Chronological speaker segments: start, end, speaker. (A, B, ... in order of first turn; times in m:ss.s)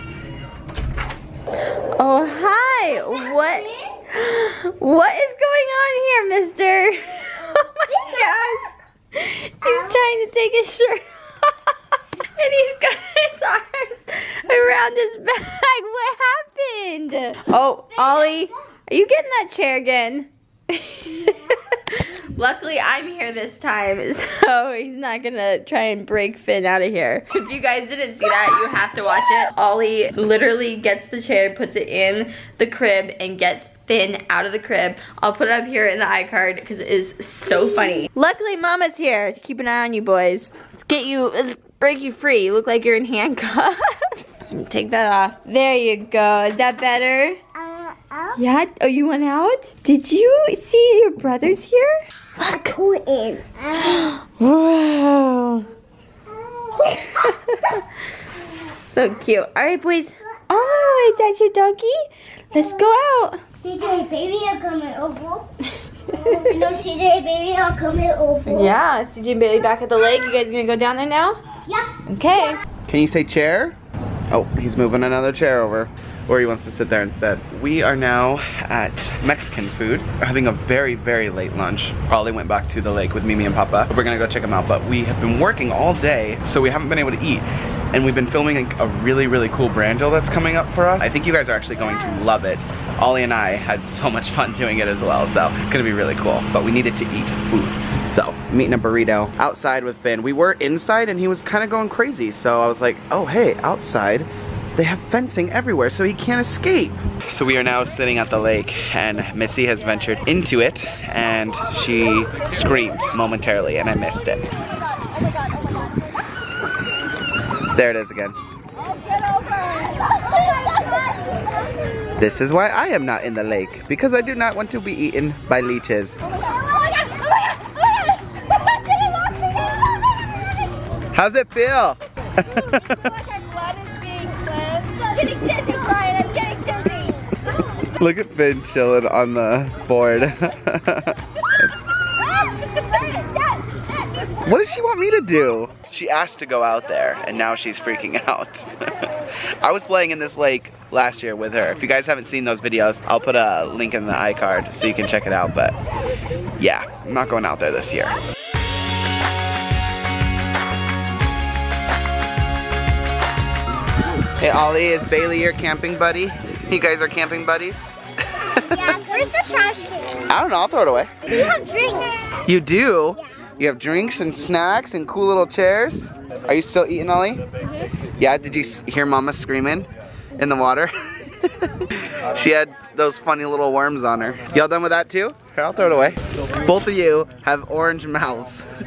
0:02.0-0:47.4 A
0:02.9-0:03.9 B
0:07.2-0:08.7 B
0:09.6-0:10.0 B
0:18.0-0:18.4 B
0:21.2-0:21.6 B
0:37.5-0:38.1 B
0:47.5-0:48.4 B
0:48.4-0:52.7 A
0:52.4-0:54.0 B
0:53.8-0:55.7 A
0:56.3-0:57.3 B
0:56.8-0:57.9 A
0:58.5-1:02.0 A
1:00.5-1:01.1 B
1:02.5-1:03.4 A
1:02.5-1:02.9 B
1:03.6-1:05.5 B
1:06.1-1:08.8 B
1:06.1-1:06.6 A
1:08.5-1:11.4 A
1:11.6-1:12.5 B
1:12.0-1:12.6 A
1:12.9-1:13.8 C
1:14.3-1:54.5 C
1:57.7-1:58.4 C
2:02.2-2:06.3 C
2:11.1-2:13.0 C
2:13.6-2:17.2 A
2:18.0-2:21.8 C
2:24.4-2:29.1 C
2:29.6-2:35.8 C
2:36.6-2:38.2 C
2:44.4-2:48.9 C
2:48.6-2:50.2 B
2:50.3-2:51.2 C
2:51.3-2:52.4 B
2:52.4-2:57.4 C
2:57.6-2:57.9 B
2:58.2-3:08.7 C